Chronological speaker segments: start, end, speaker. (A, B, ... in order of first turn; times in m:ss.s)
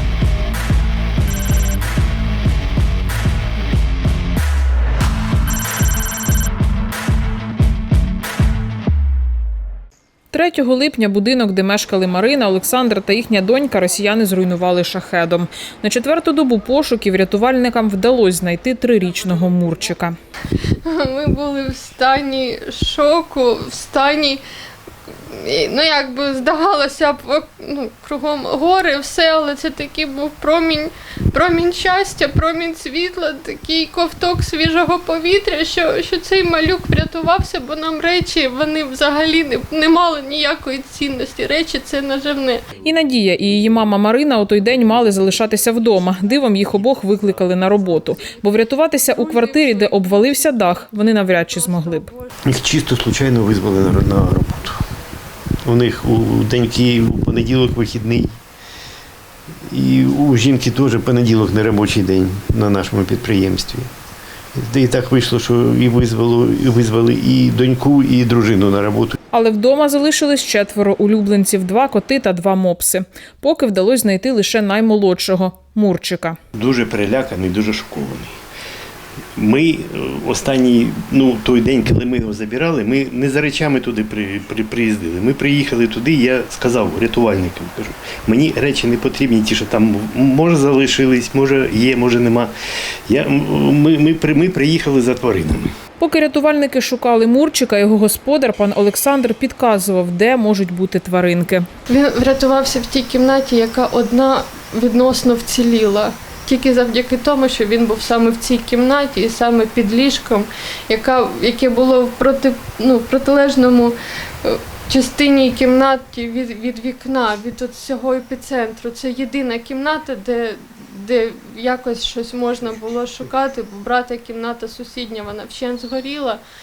0:10.3-0:20.2 A
0:20.8-0:24.4 B
0:25.3-0:42.6 B
0:42.8-0:52.1 A
0:52.5-0:54.8 C
0:55.6-0:58.3 C
0:59.7-1:03.9 C
1:04.6-1:09.2 C
1:09.3-1:16.4 A
1:16.6-1:18.3 C
1:19.4-1:32.5 C
1:33.1-1:35.7 C
1:36.0-1:41.7 A
1:41.9-2:06.4 B